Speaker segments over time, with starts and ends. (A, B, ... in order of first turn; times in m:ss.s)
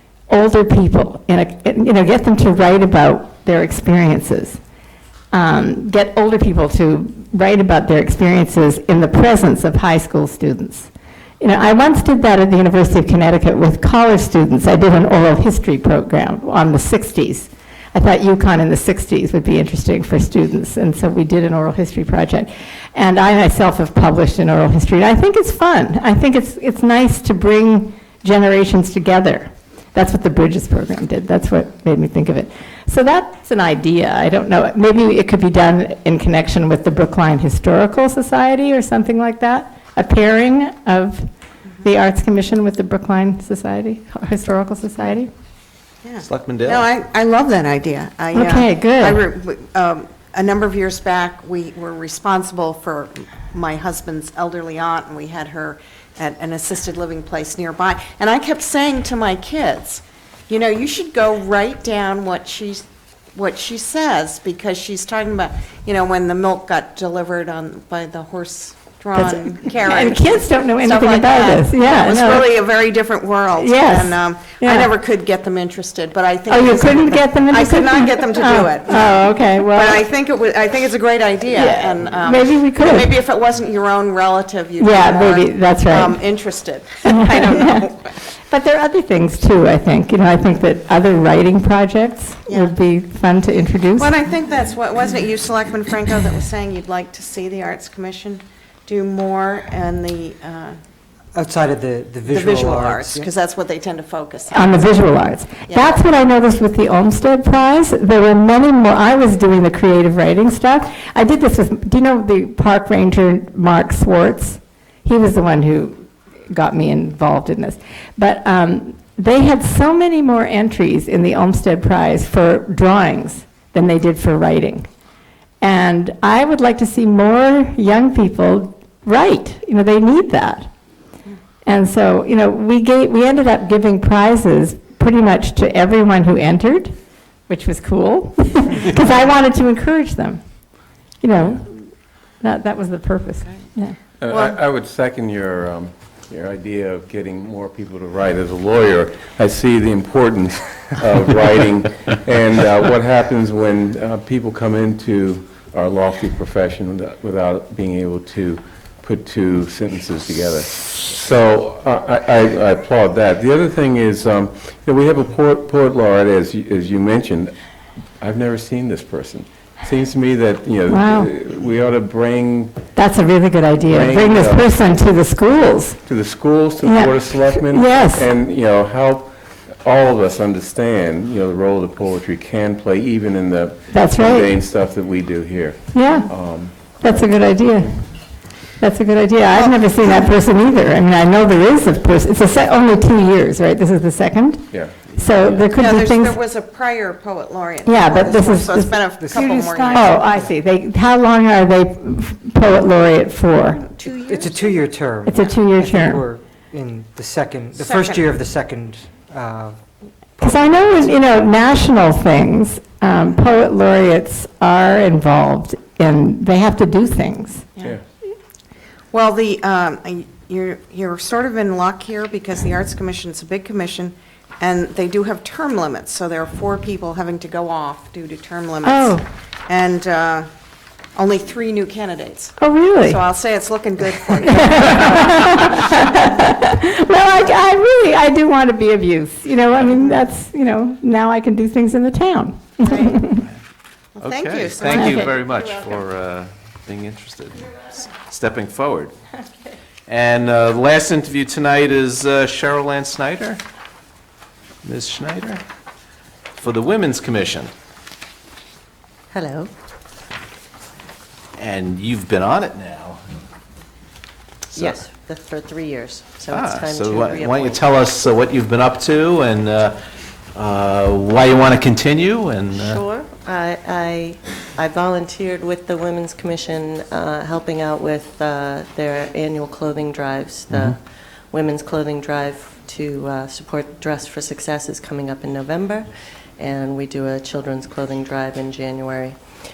0:00.3-0:04.6 A
0:05.3-0:10.9 A
0:11.4-0:41.3 A
0:41.8-0:45.3 A
0:46.0-1:28.0 B
0:46.2-0:46.8 C
0:48.3-0:49.2 A
1:09.2-1:12.5 A
1:13.6-1:14.9 A
1:16.5-1:20.0 A
1:21.5-1:23.1 A
1:24.8-1:26.2 A
1:27.0-1:27.9 A
1:28.5-1:34.2 A
1:34.0-1:40.8 B
1:41.3-1:43.3 D
1:42.3-1:44.8 B
1:44.5-2:04.9 A
1:45.7-1:46.0 B
2:05.6-2:10.7 A
2:11.6-2:17.0 A
2:17.5-2:20.4 A
2:21.2-2:24.0 A
2:24.2-2:47.5 E
2:48.2-2:52.8 E
2:50.9-2:51.3 A
2:52.9-2:56.0 A
2:53.9-2:54.7 E
2:56.0-3:07.2 E
2:56.8-2:58.3 A
3:03.9-3:04.5 A
3:05.9-3:06.3 A
3:07.0-3:08.0 A
3:08.8-3:16.4 A
3:09.5-3:10.2 B
3:14.7-3:15.0 E
3:15.7-3:20.3 B
3:17.8-3:23.8 A
3:19.2-3:20.5 D
3:23.7-3:25.4 B
3:24.2-3:29.8 D
3:25.2-3:26.2 A
3:27.8-3:28.2 B
3:30.4-3:31.3 D
3:30.4-3:37.6 A
3:39.1-3:50.5 B
3:48.8-3:49.2 A
3:51.2-3:56.0 B
3:52.6-3:53.2 A
3:54.4-4:03.4 A
4:02.8-4:03.2 B
4:04.2-4:06.0 B
4:04.2-4:09.1 C
4:04.9-4:05.2 A
4:10.1-4:13.6 C
4:14.8-4:15.6 C
4:16.6-4:17.7 C
4:19.3-4:19.7 F
4:21.6-4:23.2 C
4:24.7-4:25.0 C
4:24.7-4:27.9 F
4:26.5-4:30.0 C
4:30.5-4:33.0 C
4:32.7-4:41.0 F
4:41.5-4:49.3 F